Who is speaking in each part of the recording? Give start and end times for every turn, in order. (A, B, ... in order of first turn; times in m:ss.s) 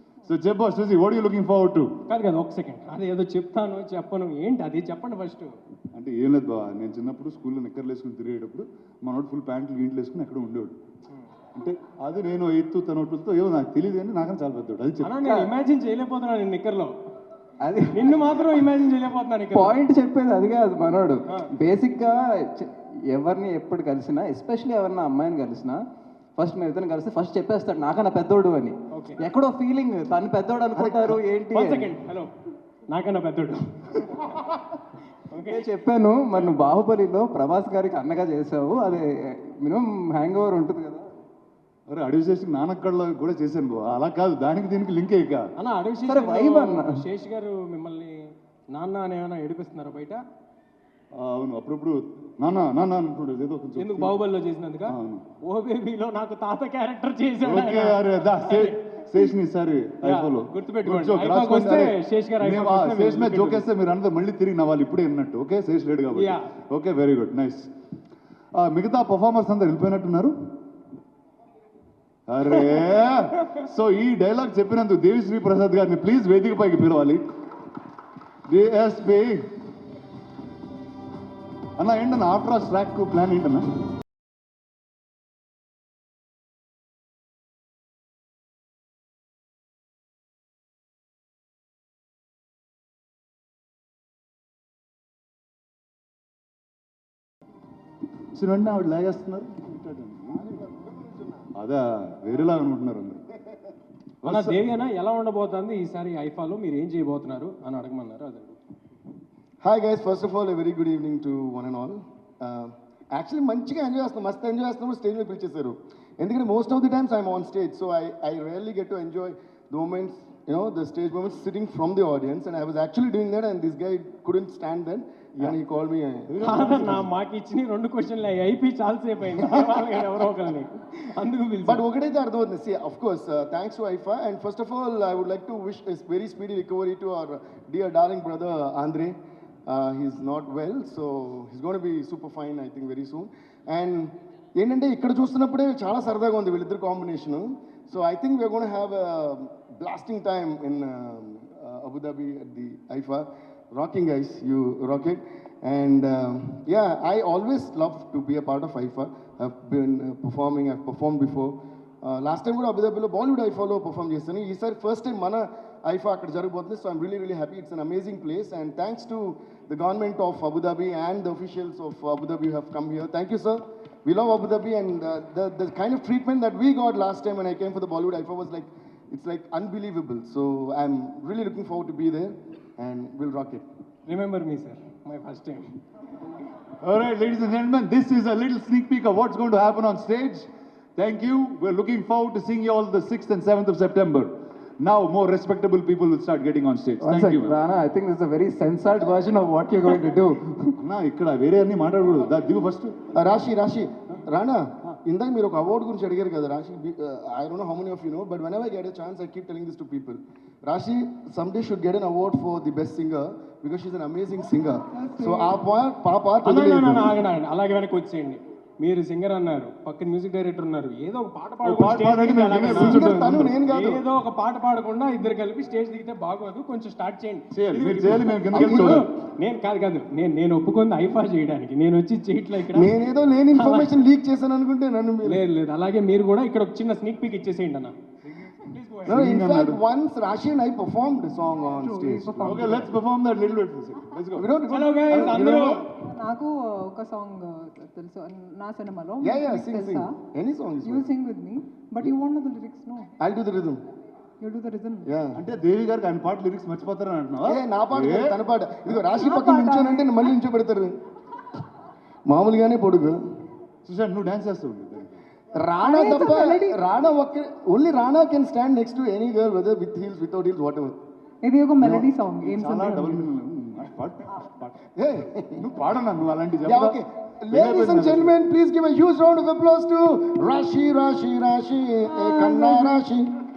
0:00.3-0:01.9 A
0:02.1-0:05.5 B
0:05.9-0:10.8 A
0:11.6-0:15.2 A
0:15.0-0:16.9 B
0:17.6-0:18.2 C
0:17.9-0:19.8 B
0:19.5-0:25.8 C
0:26.4-0:31.9 C
0:28.9-0:29.2 B
0:31.5-0:32.3 B
0:32.9-0:34.3 B
0:35.3-0:35.6 B
0:35.5-0:41.1 C
0:41.9-0:45.5 A
0:45.6-0:48.2 B
0:46.1-0:47.0 C
0:48.7-0:50.2 B
0:51.2-0:54.2 A
0:53.8-0:58.8 B
0:54.9-0:55.2 A
0:57.4-1:07.7 A
1:00.0-1:03.6 B
1:06.1-1:06.5 B
1:08.6-1:10.4 A
1:12.3-1:17.3 A
1:18.5-1:19.5 A
1:21.8-1:23.8 A
1:38.4-1:40.6 A
1:40.6-1:41.4 D
1:41.6-1:43.2 A
1:44.2-1:44.6 A
1:44.2-1:48.6 B
1:49.6-2:06.4 D
2:06.3-2:07.1 A
2:06.4-2:11.8 B
2:11.6-2:19.2 D
2:19.7-3:03.6 D
3:04.1-3:05.7 B
3:06.8-3:17.6 A
3:17.0-3:20.7 C
3:20.8-3:23.0 A
3:23.2-3:37.2 D
3:34.9-3:35.6 E
3:36.4-3:52.9 B
3:41.6-3:43.4 A
3:42.7-3:44.0 D
3:47.5-3:49.0 A
3:48.5-3:49.0 D
3:52.7-3:55.4 D
3:53.5-3:54.0 B
3:55.2-3:57.9 B
3:58.7-3:59.2 B
3:59.1-3:59.8 A
3:59.1-4:02.8 D
4:01.7-4:02.9 E
4:02.4-4:04.5 A
4:04.4-4:05.9 D
4:04.7-4:05.9 B
4:06.0-4:10.2 E
4:09.2-4:11.1 D
4:10.8-4:13.1 E
4:13.2-4:13.8 D
4:14.4-4:15.1 E
4:15.1-4:15.4 D
4:15.3-4:18.4 A
4:17.4-4:21.0 D
4:19.1-4:20.2 E
4:22.3-4:23.2 D
4:23.8-4:25.2 A
4:25.6-4:31.0 D
4:25.8-4:26.8 E
4:31.4-4:33.3 E
4:31.8-4:34.8 A
4:35.0-4:35.6 D
4:35.6-4:37.0 A
4:36.7-4:43.3 D
4:37.5-4:38.3 A
4:42.1-4:43.1 E